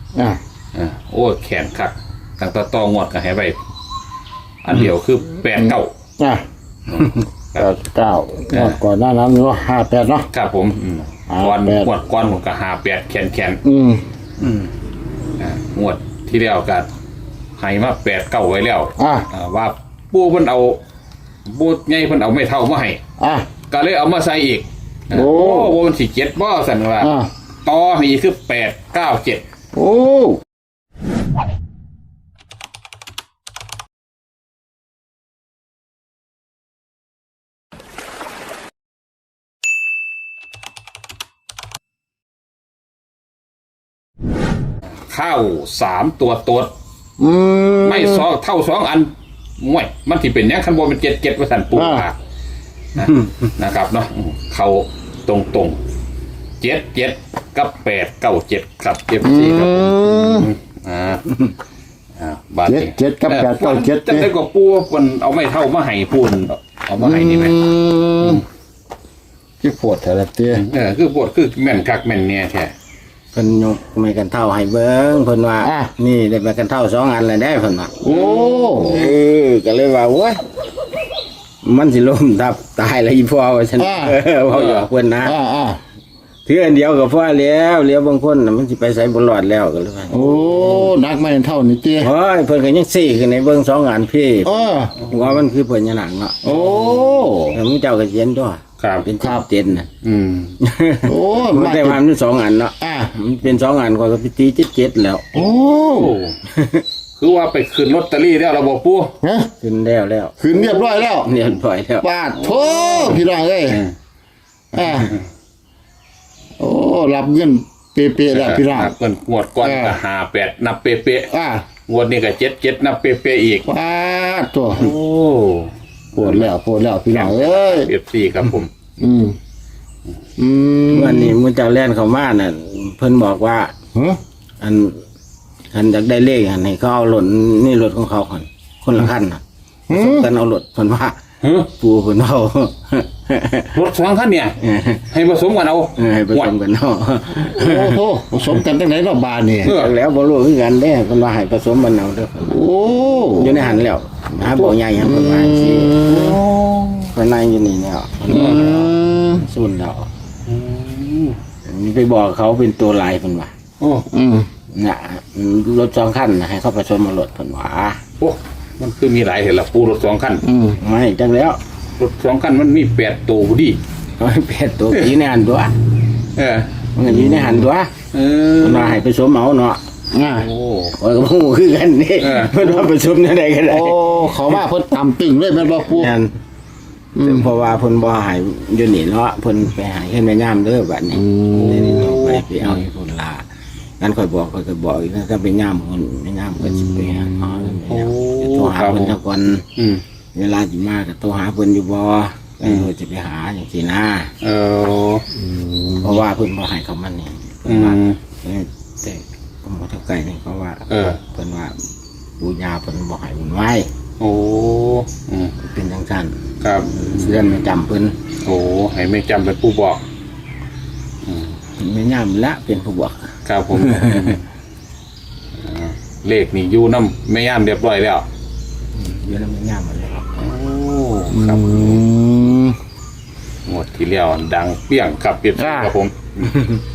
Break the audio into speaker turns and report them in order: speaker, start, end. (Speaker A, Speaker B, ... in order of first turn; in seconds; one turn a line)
Speaker A: 0.7-3.6
Speaker A: 4.6-5.9
Speaker A: 6.9-7.7
Speaker B: 7.5-10.3
Speaker A: 8.5-8.8
Speaker A: 10.3-13.6
Speaker B: 11.3-11.9
Speaker B: 13.6-14.0
Speaker A: 15.4-16.9
Speaker A: 17.6-20.8
Speaker B: 19.0-19.2
Speaker A: 21.4-23.0
Speaker B: 23.2-23.4
Speaker A: 23.7-27.1
Speaker B: 25.1-25.8
Speaker B: 27.0-27.3
Speaker A: 27.6-29.4
Speaker B: 29.7-30.4
Speaker A: 45.1-46.7
Speaker B: 47.2-48.3
Speaker A: 47.8-52.2
Speaker B: 51.7-52.0
Speaker A: 52.9-55.8
Speaker A: 56.6-61.4
Speaker B: 59.2-60.5
Speaker A: 62.2-67.6
Speaker B: 62.6-64.3
Speaker B: 67.0-68.4
Speaker B: 69.6-70.6
Speaker A: 70.5-72.7
Speaker C: 73.3-78.0
Speaker B: 75.6-75.9
Speaker B: 78.0-79.0
Speaker A: 78.0-78.9
Speaker C: 78.8-80.4
Speaker C: 81.6-85.4
Speaker B: 83.8-84.2
Speaker A: 84.5-84.9
Speaker B: 85.2-85.8
Speaker C: 86.5-90.9
Speaker B: 90.1-92.1
Speaker C: 92.0-96.4
Speaker B: 94.4-95.0
Speaker B: 96.4-97.6
Speaker A: 96.5-97.0
Speaker C: 97.5-99.9
Speaker A: 98.8-99.0
Speaker B: 99.2-99.5
Speaker A: 100.0-100.5
Speaker C: 100.6-105.4
Speaker B: 101.0-102.0
Speaker B: 102.8-103.1
Speaker B: 105.3-106.1
Speaker A: 105.4-106.4
Speaker C: 106.5-106.8
Speaker A: 107.2-109.2
Speaker B: 109.2-109.5
Speaker C: 109.6-112.0
Speaker B: 110.4-111.3
Speaker B: 112.0-113.8
Speaker A: 112.4-113.9
Speaker B: 114.7-115.1
Speaker B: 116.6-118.9
Speaker A: 118.3-121.3
Speaker B: 119.6-120.0
Speaker B: 121.3-121.6
Speaker A: 121.9-123.7
Speaker B: 123.7-124.9
Speaker A: 124.7-126.5
Speaker B: 126.1-127.9
Speaker A: 127.1-128.7
Speaker B: 129.0-129.3
Speaker B: 130.4-131.4
Speaker C: 130.9-133.7
Speaker B: 133.9-134.2
Speaker C: 134.6-135.0
Speaker C: 135.7-141.2
Speaker B: 139.9-140.3
Speaker A: 141.4-141.7
Speaker C: 141.8-143.7
Speaker A: 143.7-144.6
Speaker C: 144.6-145.0
Speaker A: 145.1-146.5
Speaker C: 146.0-148.0
Speaker B: 147.5-149.7
Speaker A: 149.6-149.9
Speaker C: 149.6-152.6
Speaker B: 152.4-153.7
Speaker C: 153.2-156.1
Speaker B: 154.6-156.4
Speaker A: 156.1-157.1
Speaker C: 157.1-160.1
Speaker B: 158.2-159.4
Speaker A: 160.5-161.4
Speaker C: 161.6-163.5
Speaker A: 163.8-164.1
Speaker B: 164.1-164.5
Speaker C: 164.7-168.0
Speaker A: 168.2-170.4
Speaker B: 170.4-170.8
Speaker C: 170.8-171.6
Speaker A: 172.0-173.8
Speaker C: 174.2-175.7
Speaker A: 176.3-176.7
Speaker C: 176.9-177.9
Speaker A: 178.1-179.0
Speaker C: 178.6-179.8
Speaker B: 180.1-180.5
Speaker A: 180.4-180.9
Speaker C: 181.0-184.6
Speaker A: 182.2-182.9
Speaker B: 183.7-186.1
Speaker C: 185.8-186.3
Speaker B: 187.2-187.5
Speaker C: 187.2-193.4
Speaker B: 191.1-192.0
Speaker A: 191.5-192.8
Speaker C: 194.0-199.6
Speaker B: 196.6-197.6
Speaker A: 197.9-199.2
Speaker A: 199.8-200.0
Speaker C: 200.3-204.3
Speaker A: 202.6-202.9
Speaker A: 204.4-205.2
Speaker B: 205.3-206.2
Speaker C: 206.0-211.8
Speaker A: 207.7-208.2
Speaker A: 210.9-211.2
Speaker C: 212.4-213.9
Speaker A: 214.2-215.5
Speaker C: 215.6-216.4
Speaker A: 216.6-216.9
Speaker C: 216.9-218.2
Speaker A: 218.4-220.0
Speaker A: 221.2-221.5
Speaker C: 221.8-224.4
Speaker A: 223.4-224.4
Speaker A: 225.6-228.2
Speaker C: 228.9-230.2
Speaker A: 230.3-232.0
Speaker B: 231.3-232.8
Speaker A: 233.7-236.5
Speaker B: 235.6-235.9